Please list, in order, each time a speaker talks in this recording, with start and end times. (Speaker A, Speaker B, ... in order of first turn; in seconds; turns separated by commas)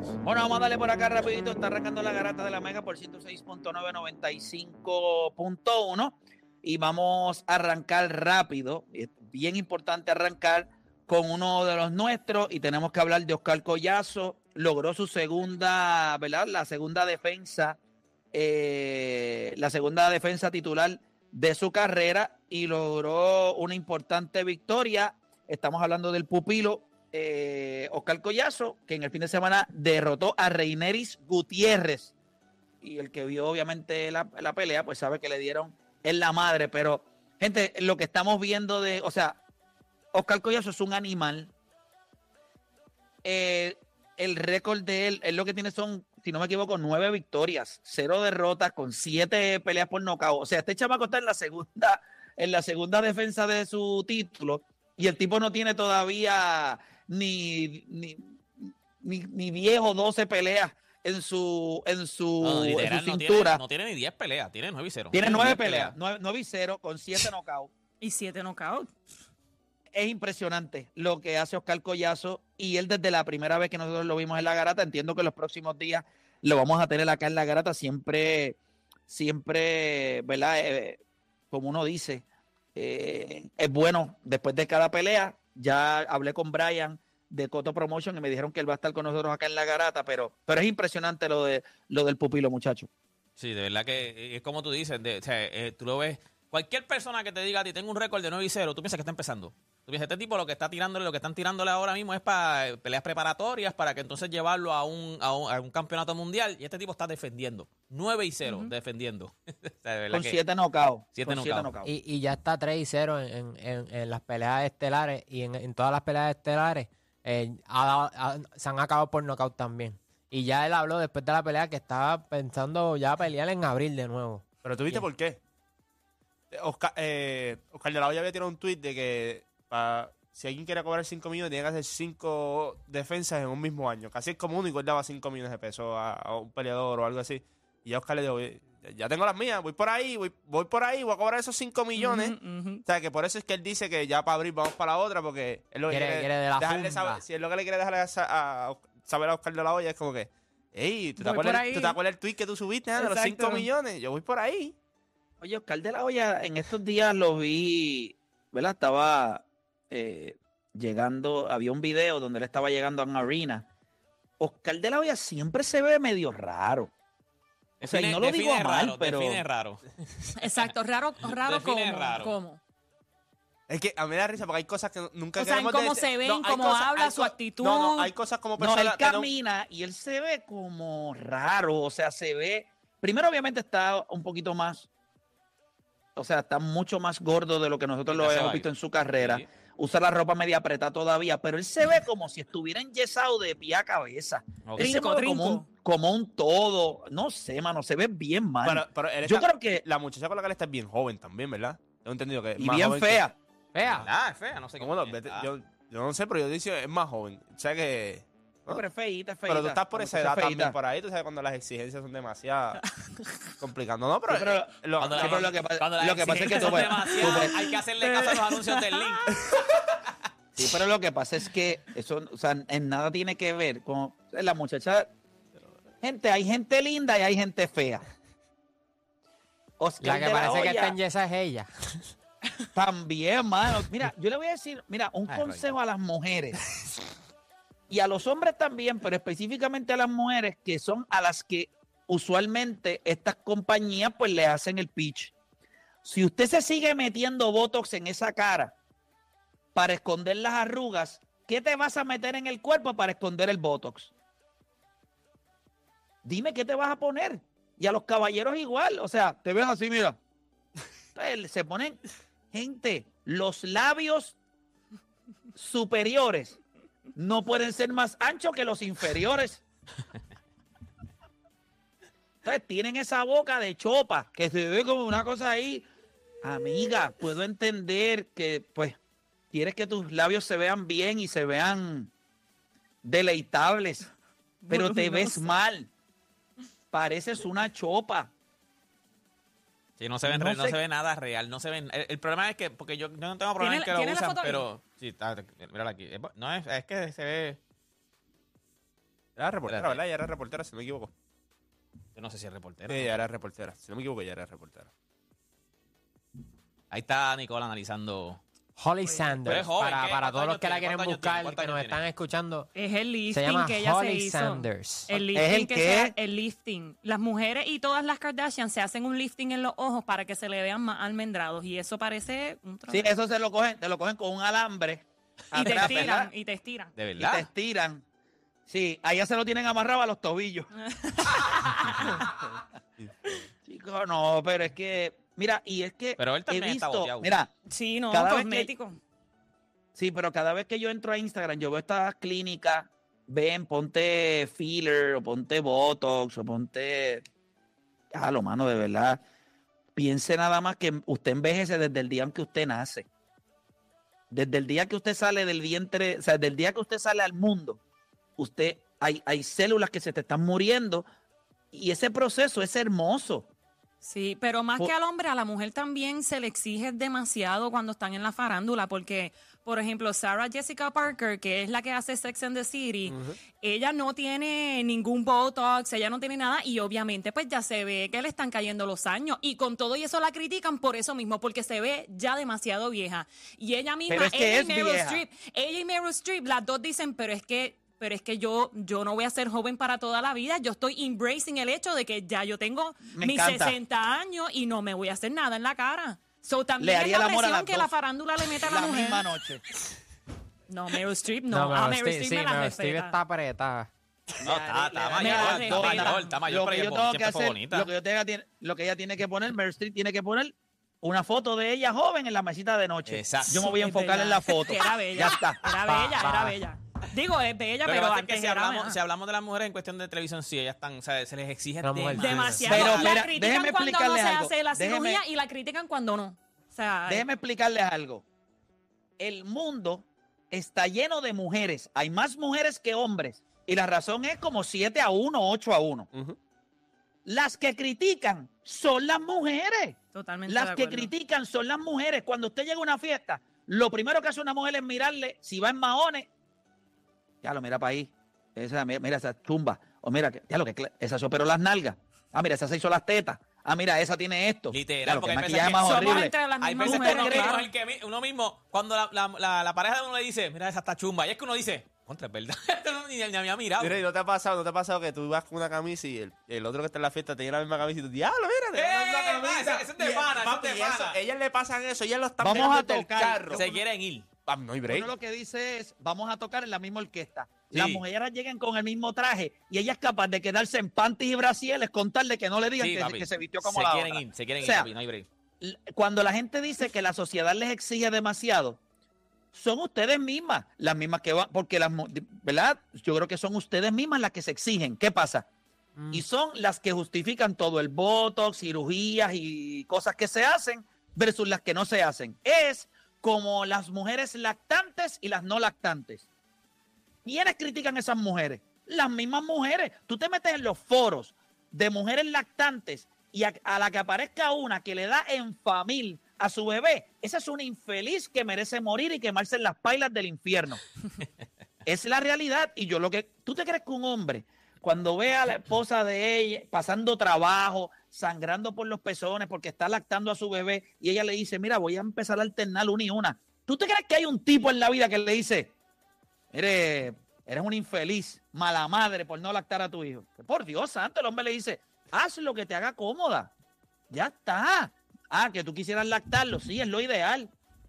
Speaker A: 0.2-17.8, Speaker A: 18.3-32.1, Speaker A: 32.8-39.4, Speaker A: 40.1-41.5, Speaker A: 43.2-63.6, Speaker B: 62.4-65.9, Speaker A: 65.1-67.7, Speaker C: 68.0-69.0, Speaker A: 69.9-92.9, Speaker B: 93.4-110.4, Speaker C: 108.4-108.7, Speaker A: 110.1-111.9, Speaker B: 111.1-111.7, Speaker D: 111.8-125.1, Speaker E: 124.6-125.4, Speaker E: 126.5-154.7, Speaker C: 141.9-142.8, Speaker D: 145.9-147.2, Speaker C: 151.2-152.0, Speaker C: 153.0-153.7, Speaker A: 155.4-163.7, Speaker A: 164.4-166.9, Speaker B: 167.8-169.8, Speaker A: 167.8-169.4, Speaker C: 170.3-172.6, Speaker B: 171.3-172.3, Speaker E: 173.7-176.8, Speaker C: 175.3-178.1, Speaker A: 176.3-177.3, Speaker E: 177.5-179.3, Speaker A: 178.6-184.9, Speaker A: 186.2-199.8, Speaker B: 188.1-189.5, Speaker B: 194.7-194.9, Speaker C: 194.8-195.7, Speaker E: 198.6-203.2, Speaker A: 202.6-203.3, Speaker D: 203.7-204.1, Speaker B: 203.9-205.5, Speaker E: 204.8-208.8, Speaker A: 208.7-210.8, Speaker E: 209.5-212.8, Speaker E: 213.6-215.5, Speaker A: 214.3-217.5, Speaker B: 215.0-219.5, Speaker C: 216.3-219.2, Speaker A: 220.6-225.1, Speaker A: 226.0-228.0, Speaker A: 229.8-230.9, Speaker D: 230.0-232.0, Speaker A: 232.7-236.6, Speaker B: 235.3-235.7, Speaker A: 237.9-245.3, Speaker A: 246.0-248.8, Speaker A: 249.7-254.1, Speaker A: 256.2-260.2, Speaker A: 261.1-262.0, Speaker A: 262.5-264.4, Speaker A: 265.6-266.6, Speaker A: 267.1-269.6, Speaker A: 272.4-275.9, Speaker A: 276.4-279.0, Speaker A: 279.5-282.1, Speaker A: 283.0-284.1, Speaker C: 284.6-285.5, Speaker A: 284.7-285.9, Speaker A: 286.9-288.3, Speaker B: 290.0-297.6, Speaker A: 290.2-290.8, Speaker C: 293.6-294.7, Speaker E: 299.4-301.1, Speaker B: 299.7-300.0, Speaker B: 302.1-303.2, Speaker E: 302.9-304.9, Speaker B: 306.9-308.4, Speaker D: 308.8-312.7, Speaker C: 309.0-309.6, Speaker B: 309.4-312.0, Speaker C: 312.7-323.1, Speaker D: 313.3-315.1, Speaker A: 315.1-316.1, Speaker A: 322.9-326.3, Speaker B: 325.5-326.1, Speaker C: 325.6-326.9, Speaker B: 326.9-327.5, Speaker A: 327.2-328.0, Speaker A: 328.7-330.7, Speaker C: 330.8-332.2, Speaker A: 333.6-337.5, Speaker B: 336.2-337.3, Speaker C: 337.6-339.0, Speaker A: 338.1-338.7, Speaker A: 339.9-347.2, Speaker A: 348.1-349.2, Speaker A: 349.9-353.1, Speaker A: 354.3-357.8, Speaker A: 358.4-361.1, Speaker A: 361.7-363.5, Speaker C: 364.0-399.2, Speaker A: 384.1-385.2, Speaker A: 393.1-393.8, Speaker A: 396.8-397.9, Speaker A: 398.6-399.6, Speaker C: 400.7-403.1, Speaker D: 401.5-403.9, Speaker A: 404.4-416.2, Speaker B: 404.4-407.9, Speaker C: 405.2-406.3, Speaker B: 413.1-413.7, Speaker C: 413.5-418.9, Speaker D: 416.2-416.5, Speaker B: 417.8-423.2, Speaker D: 421.8-422.7, Speaker C: 422.2-427.2, Speaker A: 422.7-425.2, Speaker A: 427.1-428.2, Speaker A: 429.2-436.1, Speaker A: 437.2-446.3, Speaker C: 440.1-441.1, Speaker A: 447.4-457.6, Speaker B: 454.7-464.0, Speaker C: 455.7-457.7, Speaker E: 463.8-473.7, Speaker B: 468.7-471.2, Speaker A: 472.4-473.7, Speaker B: 473.5-474.3, Speaker E: 474.5-475.1, Speaker A: 474.9-484.9, Speaker B: 477.7-478.0, Speaker B: 482.8-485.3, Speaker A: 485.6-488.8, Speaker A: 489.5-495.5, Speaker D: 496.0-496.2, Speaker A: 496.1-506.3, Speaker A: 507.2-520.8, Speaker A: 521.9-535.7, Speaker A: 536.5-543.5, Speaker A: 544.1-547.5